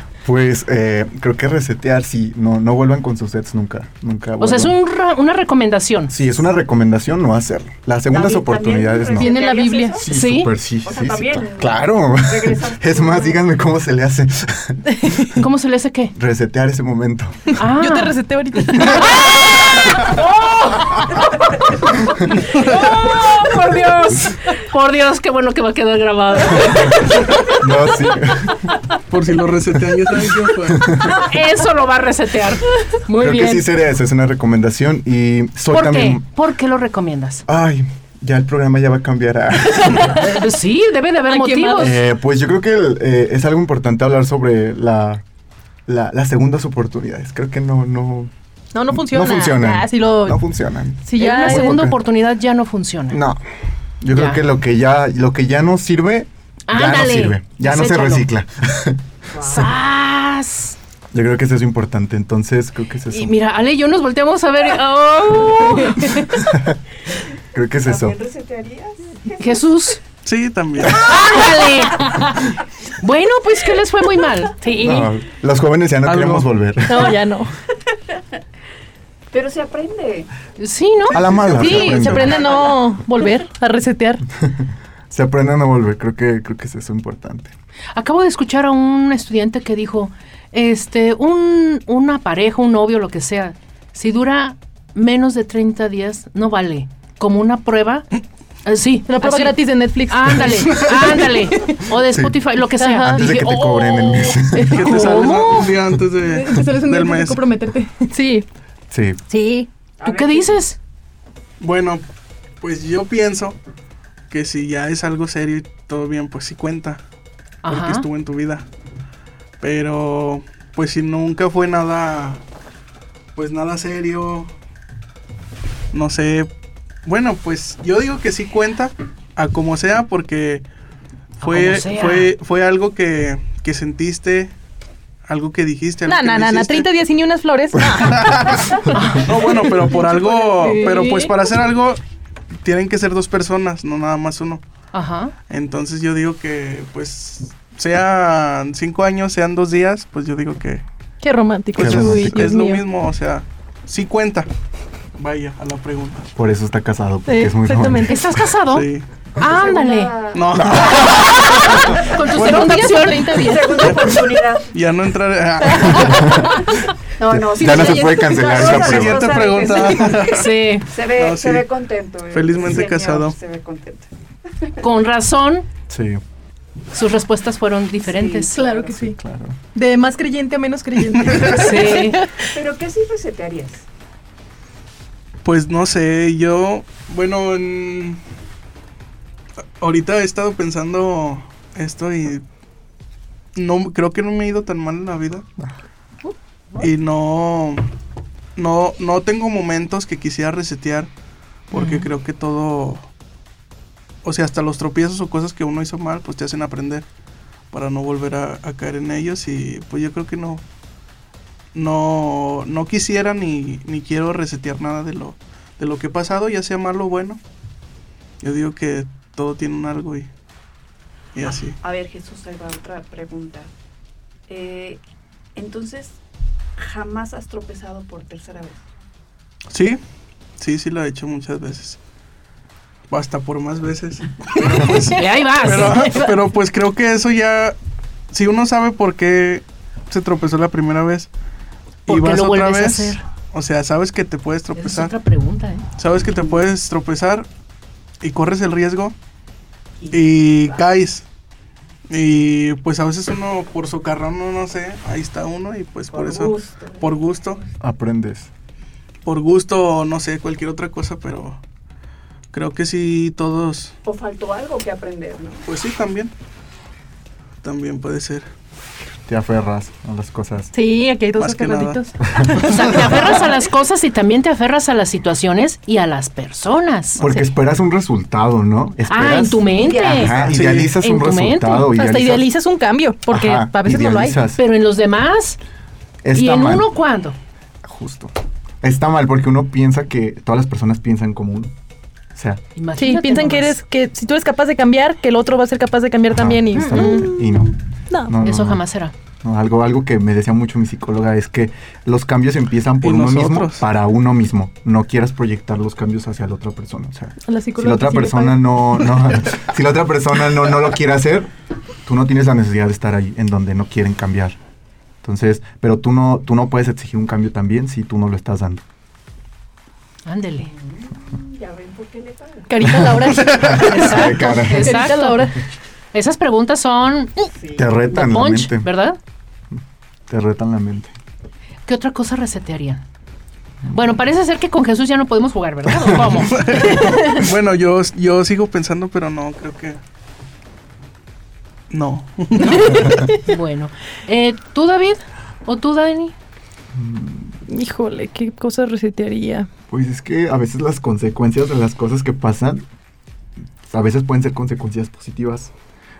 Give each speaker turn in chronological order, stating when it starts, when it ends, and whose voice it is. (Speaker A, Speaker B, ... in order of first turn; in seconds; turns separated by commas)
Speaker A: 0.2-4.8, Speaker B: 4.4-6.1, Speaker A: 6.1-9.4, Speaker C: 8.1-10.1, Speaker D: 9.2-10.0, Speaker A: 10.0-15.1, Speaker B: 10.1-10.5, Speaker C: 10.8-13.4, Speaker D: 14.9-15.3, Speaker B: 15.3-16.1, Speaker A: 16.1-17.5, Speaker B: 17.6-18.2, Speaker D: 17.7-19.4, Speaker B: 18.8-21.2, Speaker B: 22.1-27.6, Speaker A: 27.5-28.6, Speaker E: 29.1-31.0, Speaker A: 30.7-31.0, Speaker B: 31.0-33.7, Speaker A: 33.2-36.2, Speaker B: 35.7-37.4, Speaker A: 37.5-40.4, Speaker D: 39.8-40.4, Speaker B: 40.3-41.9, Speaker D: 41.3-42.0, Speaker A: 41.8-45.2, Speaker A: 45.9-48.3, Speaker D: 48.7-50.4, Speaker A: 48.9-52.0, Speaker D: 51.0-51.8, Speaker B: 51.1-53.2, Speaker A: 53.1-53.4, Speaker A: 54.0-59.0, Speaker B: 54.1-54.4, Speaker B: 56.7-58.3, Speaker C: 59.3-59.7, Speaker B: 59.4-60.8, Speaker A: 61.1-63.4, Speaker B: 63.1-66.3, Speaker A: 66.3-66.8, Speaker A: 67.5-68.2, Speaker C: 67.8-69.6, Speaker B: 69.4-70.0, Speaker E: 70.2-71.1, Speaker B: 70.9-75.1, Speaker A: 74.8-77.2, Speaker E: 76.0-76.5, Speaker D: 76.8-77.5, Speaker C: 79.3-80.3, Speaker B: 80.6-82.0, Speaker C: 81.1-82.8, Speaker A: 81.1-82.5, Speaker D: 81.5-84.2, Speaker A: 84.4-87.5, Speaker B: 87.9-98.1, Speaker B: 98.7-105.7, Speaker D: 99.1-101.8, Speaker A: 102.1-102.4, Speaker D: 102.6-105.5, Speaker A: 103.0-104.8, Speaker E: 104.6-107.5, Speaker D: 106.2-108.4, Speaker A: 108.9-109.2, Speaker D: 109.3-109.7, Speaker C: 110.0-110.6, Speaker B: 110.0-110.8, Speaker E: 111.6-112.0, Speaker E: 112.6-113.6, Speaker E: 114.3-117.0, Speaker B: 117.6-118.1, Speaker E: 117.7-118.7, Speaker E: 119.6-122.4, Speaker E: 123.3-124.5, Speaker E: 125.9-126.5, Speaker E: 127.0-130.6, Speaker E: 131.4-134.5, Speaker B: 131.4-132.3, Speaker E: 135.2-136.9, Speaker D: 136.1-141.3, Speaker E: 138.0-142.0, Speaker B: 138.9-139.3, Speaker B: 140.7-141.2, Speaker E: 142.6-144.6, Speaker B: 144.9-145.3, Speaker E: 145.5-150.8, Speaker D: 151.2-152.8, Speaker E: 151.7-154.5, Speaker A: 151.8-152.3, Speaker E: 155.2-156.3, Speaker A: 156.3-158.2, Speaker D: 157.3-158.2, Speaker B: 158.1-160.2, Speaker E: 158.7-159.1, Speaker C: 159.4-161.1, Speaker E: 160.3-161.8, Speaker A: 160.6-160.9, Speaker B: 161.1-163.6, Speaker D: 161.9-164.2, Speaker E: 162.4-162.7, Speaker C: 163.3-164.8, Speaker E: 163.8-164.1, Speaker E: 164.7-166.4, Speaker D: 165.6-166.9, Speaker A: 165.9-166.6, Speaker C: 167.2-174.1, Speaker A: 167.3-169.4, Speaker D: 167.6-168.5, Speaker E: 168.4-170.5, Speaker B: 170.3-170.9, Speaker E: 171.1-171.7, Speaker E: 172.3-173.3, Speaker B: 174.8-175.7, Speaker A: 175.9-176.2, Speaker B: 176.9-178.6, Speaker C: 178.0-178.8, Speaker D: 178.5-179.2, Speaker A: 178.8-179.6, Speaker D: 179.7-182.5, Speaker E: 181.2-181.5, Speaker B: 181.3-182.2, Speaker C: 182.5-183.8, Speaker E: 185.4-188.2, Speaker E: 189.8-192.4, Speaker E: 193.5-195.4, Speaker E: 196.8-197.8, Speaker E: 198.6-201.1, Speaker E: 201.7-203.1, Speaker B: 201.7-202.0, Speaker E: 204.2-207.1, Speaker E: 207.7-210.6, Speaker E: 211.7-217.4, Speaker E: 218.4-220.3, Speaker E: 221.3-221.8, Speaker C: 221.4-223.7, Speaker C: 224.5-225.0, Speaker C: 225.6-226.2, Speaker C: 226.8-228.8, Speaker E: 229.7-230.0, Speaker E: 230.6-232.0, Speaker E: 233.1-237.8, Speaker B: 234.8-236.3, Speaker E: 238.3-241.3, Speaker B: 242.1-243.2, Speaker E: 242.1-245.1, Speaker B: 244.7-245.8, Speaker E: 246.0-247.5, Speaker E: 248.2-249.2, Speaker C: 250.0-250.8, Speaker E: 250.1-251.2, Speaker E: 252.1-257.6, Speaker C: 256.1-257.1, Speaker A: 257.8-258.5, Speaker E: 259.2-261.6, Speaker E: 262.5-263.9, Speaker C: 264.0-265.6, Speaker E: 265.6-266.3, Speaker E: 267.6-268.5, Speaker A: 269.2-270.7, Speaker D: 270.7-273.4, Speaker E: 271.4-273.4, Speaker B: 272.6-277.5, Speaker A: 277.2-282.5, Speaker B: 279.1-281.9, Speaker C: 279.7-280.8, Speaker E: 280.5-280.9, Speaker D: 281.9-284.4, Speaker A: 283.3-284.6, Speaker B: 284.6-285.6, Speaker A: 286.2-286.9, Speaker B: 286.3-287.4, Speaker A: 287.8-291.7, Speaker A: 292.3-292.6, Speaker B: 292.8-293.8, Speaker D: 293.0-297.5, Speaker A: 296.3-298.8, Speaker B: 296.7-297.3, Speaker D: 298.1-298.4, Speaker B: 298.4-299.1, Speaker A: 299.4-311.5, Speaker E: 303.0-303.9, Speaker D: 307.4-308.7, Speaker A: 312.0-314.6, Speaker A: 315.2-318.8, Speaker B: 320.2-320.7, Speaker C: 320.6-323.0, Speaker D: 322.7-325.6, Speaker A: 322.9-325.0, Speaker B: 323.8-325.5, Speaker B: 326.1-327.5, Speaker C: 327.6-327.9, Speaker A: 327.8-328.9, Speaker B: 328.1-329.2, Speaker A: 330.3-331.1, Speaker B: 331.9-333.0, Speaker B: 333.9-336.8, Speaker E: 336.1-340.0, Speaker E: 341.9-343.1, Speaker B: 342.6-346.3, Speaker A: 346.9-347.6, Speaker D: 347.7-349.7, Speaker A: 349.9-352.8, Speaker A: 353.9-355.7